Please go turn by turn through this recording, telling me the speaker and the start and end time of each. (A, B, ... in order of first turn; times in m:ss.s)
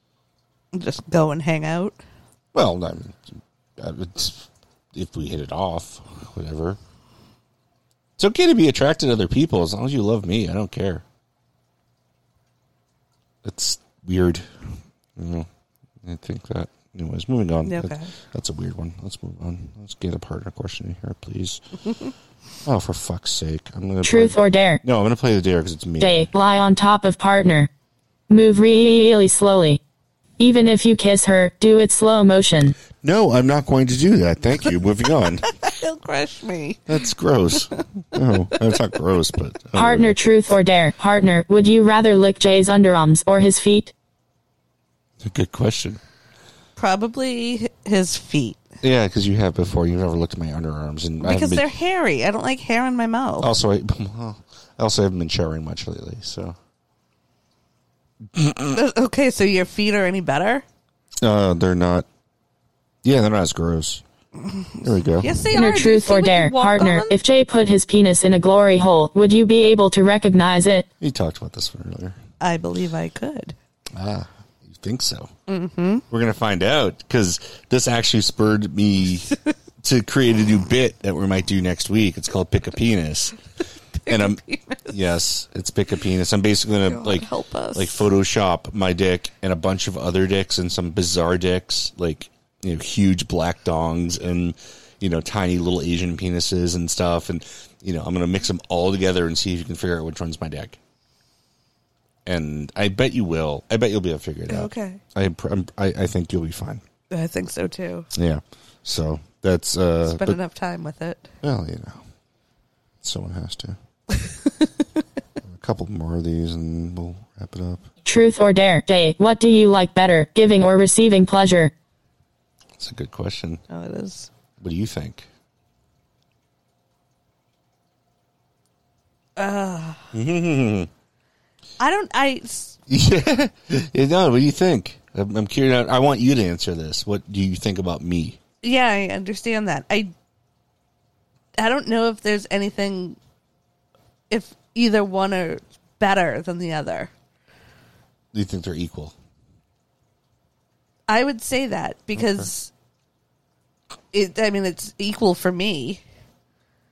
0:00.7-0:02.0 A
0:02.5-0:03.2 B
0:03.8-0:06.8 B
0:08.2-0:11.0 B
0:13.4-0:14.5 B
0:15.2-0:15.5 B
0:16.0-0:21.6 B
0:17.6-0:18.1 A
0:22.6-0:26.3 B
0:24.0-0:24.8 C
0:26.0-0:27.7 C
0:28.3-0:29.8 C
0:30.4-0:32.8 C
0:33.0-0:35.5 B
0:35.6-0:36.9 A
0:36.9-0:40.2 B
0:39.7-0:43.9 C
0:45.2-0:46.0 B
0:46.8-0:48.6 A
0:48.8-0:51.7 B
0:51.2-0:53.5 A
0:53.4-0:56.6 B
0:58.4-0:58.7 B
0:58.7-1:00.6 A
1:01.2-1:02.0 B
1:03.0-1:04.0 B
1:04.4-1:07.2 A
1:04.8-1:05.3 B
1:05.5-1:10.9 C
1:11.0-1:12.2 B
1:12.4-1:13.6 A
1:13.9-1:15.3 B
1:15.5-1:16.0 A
1:16.1-1:23.4 B
1:24.0-1:24.9 A
1:24.1-1:40.8 B
1:26.8-1:28.1 A
1:42.2-1:46.8 B
1:44.5-1:45.0 A
1:47.1-1:48.1 A
1:48.1-1:50.4 B
1:50.0-1:51.3 A
1:51.4-1:52.0 B
1:53.0-1:53.8 B
1:55.4-1:57.9 B
1:58.0-2:01.7 C
2:02.8-2:03.6 B
2:03.7-2:04.3 A
2:04.6-2:05.3 B
2:09.4-2:10.1 A
2:10.1-2:10.9 B
2:11.8-2:12.8 A
2:12.9-2:18.4 B
2:18.6-2:20.1 A
2:21.6-2:23.2 A
2:24.3-2:27.1 A
2:28.3-2:29.1 B
2:31.1-2:32.7 A
2:32.2-2:32.5 B
2:34.1-2:36.0 A